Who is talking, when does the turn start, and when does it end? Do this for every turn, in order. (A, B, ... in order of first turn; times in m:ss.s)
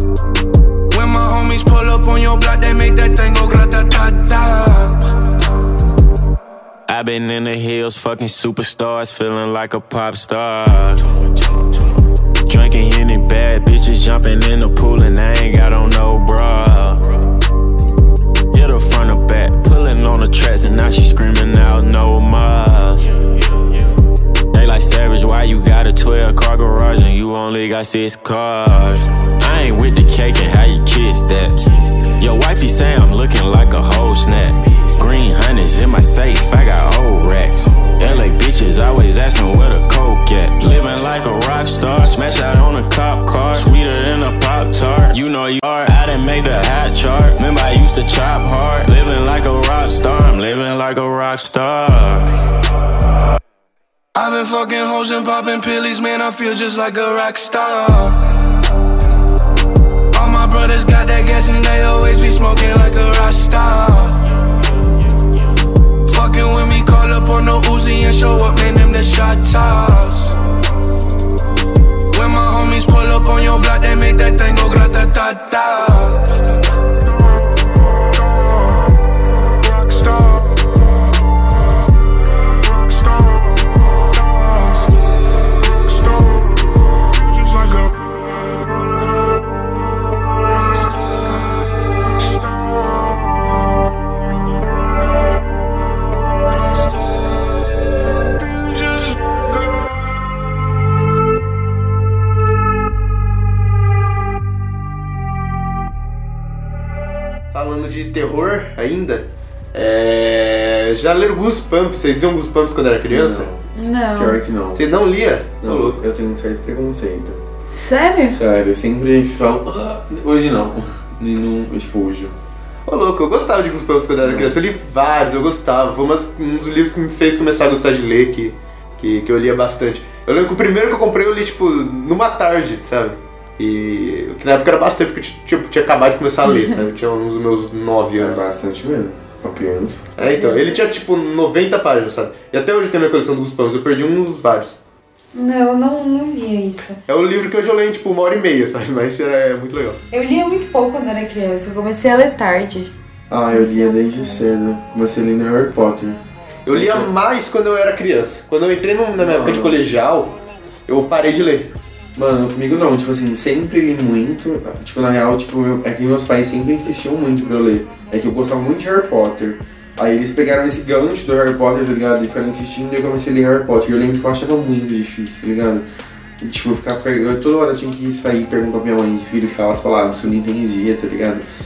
0:00.9-0:05.1 A
0:06.9-0:11.1 B
0:12.5-0:17.0 B
0:18.5-0:23.3 B
0:24.5-0:52.4 B
0:54.1-0:58.2 A
1:00.1-1:04.3 A
1:06.0-1:10.4 A
1:12.1-1:16.4 A
1:19.5-1:20.7 A
1:22.7-1:26.7 A
1:27.2-1:28.6 A
1:30.6-1:32.4 A
1:36.7-1:39.4 A
1:47.5-1:53.5 C
1:53.1-1:54.9 D
1:53.8-1:54.4 E
1:54.7-1:56.0 C
1:55.6-1:57.4 D
1:57.8-1:58.4 E
1:58.3-2:02.4 D
2:02.9-2:18.5 C
2:04.2-2:04.6 D
2:18.2-2:20.1 D
2:20.2-2:24.8 C
2:20.2-2:20.8 E
2:25.3-2:27.0 E
2:27.1-2:30.0 C
2:30.1-2:32.9 E
2:33.3-2:36.2 D
2:33.5-2:34.5 E
2:36.7-2:40.4 C
2:36.7-2:37.1 D
2:39.2-2:39.8 D
2:40.9-2:41.7 C
2:42.2-2:55.8 D
2:56.4-3:01.4 D